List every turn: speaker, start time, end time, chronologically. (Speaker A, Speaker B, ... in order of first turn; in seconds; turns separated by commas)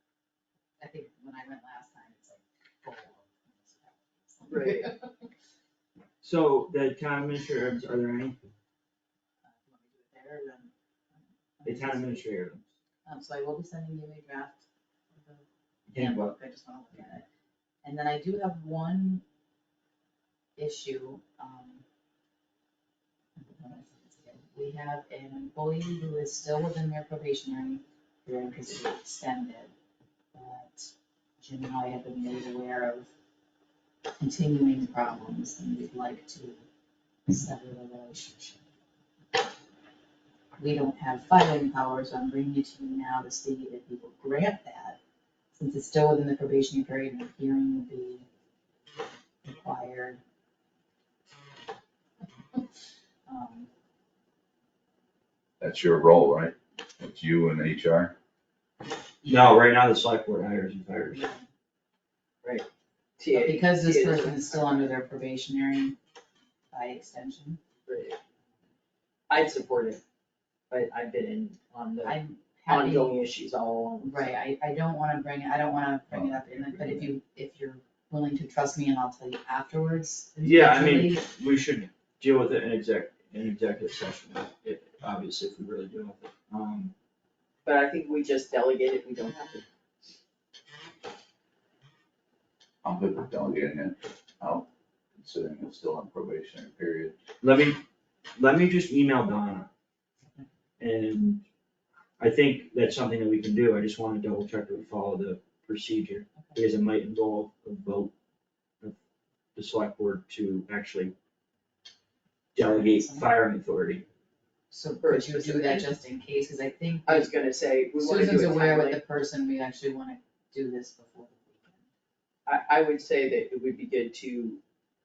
Speaker A: 0.8-5.3, Speaker B: 4.5-4.9, Speaker C: 6.2-8.4, Speaker A: 9.4-12.3, Speaker C: 11.6-12.7, Speaker A: 13.1-14.6, Speaker A: 15.2-15.4, Speaker C: 15.9-16.3, Speaker A: 15.9-17.2, Speaker A: 17.8-19.2, Speaker A: 20.6-21.8, Speaker A: 23.4-29.7, Speaker A: 30.3-33.1, Speaker A: 34.2-36.6, Speaker A: 37.3-38.6, Speaker A: 40.6-45.0, Speaker A: 45.5-48.2, Speaker A: 49.4-50.2, Speaker A: 53.2-53.7, Speaker D: 55.6-58.1, Speaker C: 59.2-61.3, Speaker A: 61.1-61.5, Speaker B: 63.2-64.9, Speaker A: 63.3-66.0, Speaker A: 66.7-67.6, Speaker B: 67.8-68.2, Speaker B: 69.3-70.0, Speaker B: 70.7-72.2, Speaker A: 72.0-73.2, Speaker B: 72.7-74.3, Speaker A: 74.0-81.3, Speaker D: 76.1-77.1, Speaker C: 80.4-86.9, Speaker B: 87.6-89.7, Speaker D: 92.8-97.2, Speaker C: 97.4-97.8, Speaker C: 98.3-99.7, Speaker C: 100.8-101.4, Speaker C: 102.2-108.1, Speaker C: 109.5-111.1, Speaker C: 112.5-114.0, Speaker A: 112.6-113.3, Speaker A: 114.7-117.3, Speaker B: 115.0-115.9, Speaker B: 117.0-119.0, Speaker A: 118.0-121.8, Speaker B: 122.5-124.6